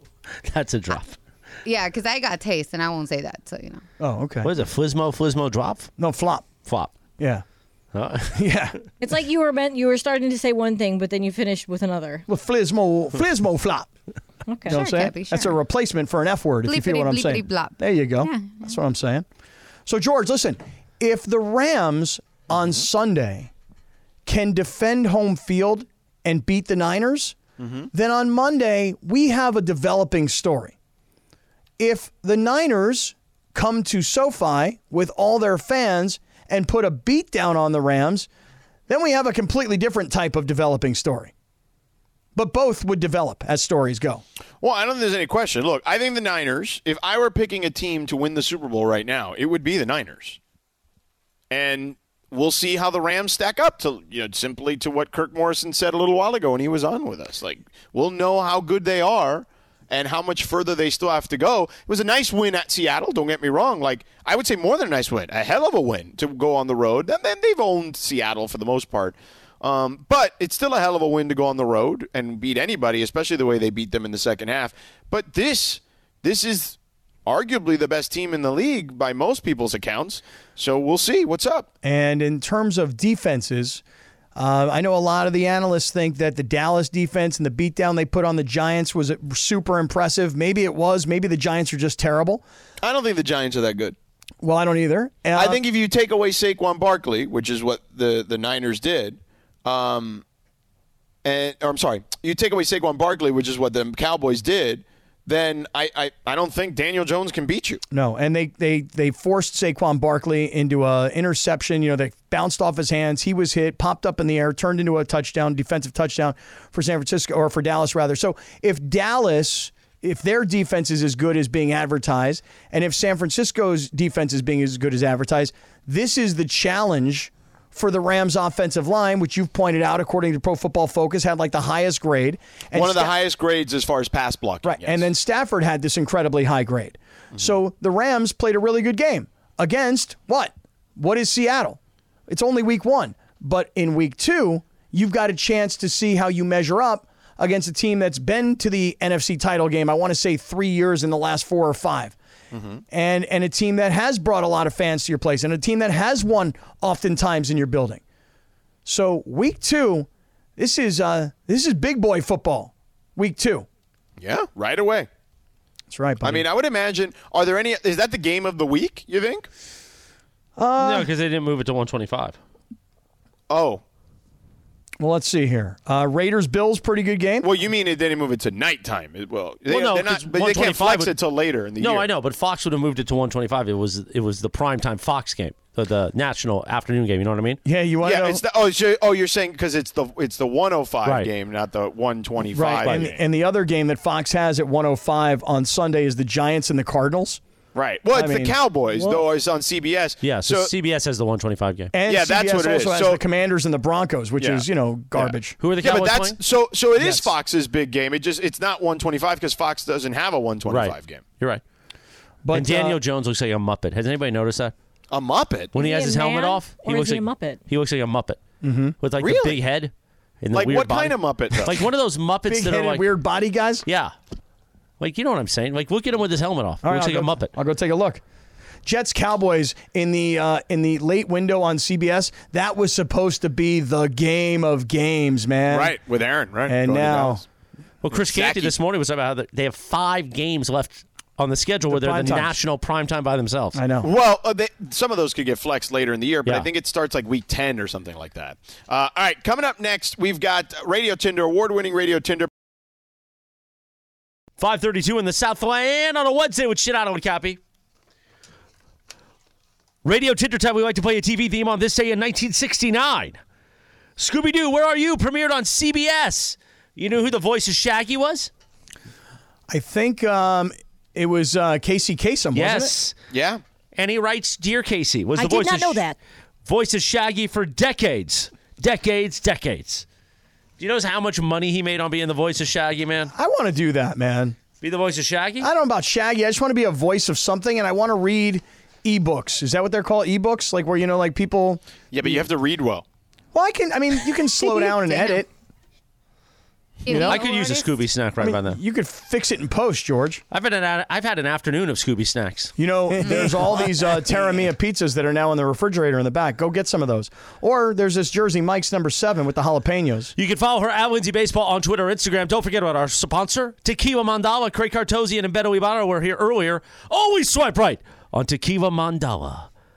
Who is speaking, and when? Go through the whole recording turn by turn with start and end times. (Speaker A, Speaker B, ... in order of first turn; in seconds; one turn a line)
Speaker A: 0.4-1.2
Speaker B: 1.6-3.8
Speaker C: 4.0-4.5
Speaker A: 4.4-5.9
Speaker C: 6.0-6.5
Speaker A: 6.7-6.9
Speaker C: 7.2-7.4
Speaker A: 7.9-8.5
Speaker C: 8.3-8.8
Speaker D: 9.0-12.2
Speaker C: 12.3-13.9
Speaker D: 14.5-15.1
Speaker C: 14.7-19.2
Speaker B: 14.7-15.6
Speaker B: 16.6-18.8
Speaker C: 19.9-23.5
Speaker E: 22.5-22.8
Speaker C: 24.2-27.4
Speaker E: 27.6-27.9
Speaker C: 27.9-30.7
Speaker C: 31.8-38.3
Speaker C: 38.9-41.3
Speaker C: 42.3-44.2
Speaker E: 44.6-50.4
Speaker E: 51.5-81.7
Speaker C: 81.8-83.8
Speaker C: 84.3-92.4
Speaker E: 92.8-94.0
Speaker C: 94.4-95.6
Speaker E: 95.3-100.2
Speaker E: 101.2-107.8
Speaker C: 107.9-133.1
Speaker E: 132.7-135.1
Speaker C: 134.6-152.2
Speaker E: 152.5-152.8
Speaker C: 152.9-158.0
Speaker C: 158.8-163.7
Speaker E: 164.2-165.1
Speaker C: 165.9-166.4
Speaker E: 166.2-169.5
Speaker C: 170.6-171.1
Speaker A: 170.8-172.4
Speaker E: 173.5-173.8
Speaker C: 175.0-177.5
Speaker E: 177.4-182.1
Speaker A: 179.7-181.2
Speaker A: 181.8-187.6
Speaker C: 187.6-188.4
Speaker E: 188.0-193.2
Speaker A: 191.0-191.3
Speaker C: 192.5-197.4
Speaker E: 197.7-200.7
Speaker C: 198.1-198.6
Speaker D: 198.9-199.2
Speaker A: 200.2-201.9
Speaker C: 201.9-205.6
Speaker E: 202.1-203.2
Speaker E: 204.4-211.2
Speaker A: 205.6-206.4
Speaker C: 206.9-207.3
Speaker A: 210.7-211.6
Speaker C: 212.4-213.0
Speaker A: 212.5-214.7
Speaker E: 215.1-215.7
Speaker D: 215.7-217.6
Speaker A: 215.7-218.4
Speaker C: 218.6-219.0
Speaker A: 219.0-223.1
Speaker E: 219.2-219.6
Speaker E: 220.5-221.8
Speaker C: 222.5-223.8
Speaker A: 223.8-224.1
Speaker A: 225.0-227.5
Speaker C: 226.8-228.2
Speaker C: 228.8-236.0
Speaker E: 235.7-237.4
Speaker C: 236.7-237.4
Speaker A: 238.0-243.8
Speaker E: 238.1-238.7
Speaker C: 241.9-242.6
Speaker C: 243.7-244.1
Speaker E: 244.0-252.5
Speaker A: 254.6-257.6
Speaker A: 260.0-263.4
Speaker A: 264.2-268.5
Speaker C: 269.7-272.9
Speaker A: 272.5-273.1
Speaker E: 273.3-273.6
Speaker A: 273.9-276.1
Speaker D: 275.4-276.2
Speaker A: 276.6-280.0
Speaker A: 280.8-283.3
Speaker C: 283.3-284.6
Speaker A: 284.8-285.7
Speaker C: 285.6-292.4
Speaker E: 292.1-293.0
Speaker C: 293.5-295.5
Speaker B: 294.8-295.3
Speaker B: 297.0-297.9
Speaker C: 297.1-297.4
Speaker A: 297.1-298.8
Speaker C: 298.4-300.4
Speaker A: 300.5-302.7
Speaker C: 302.8-310.3
Speaker B: 303.2-303.8
Speaker A: 310.4-319.7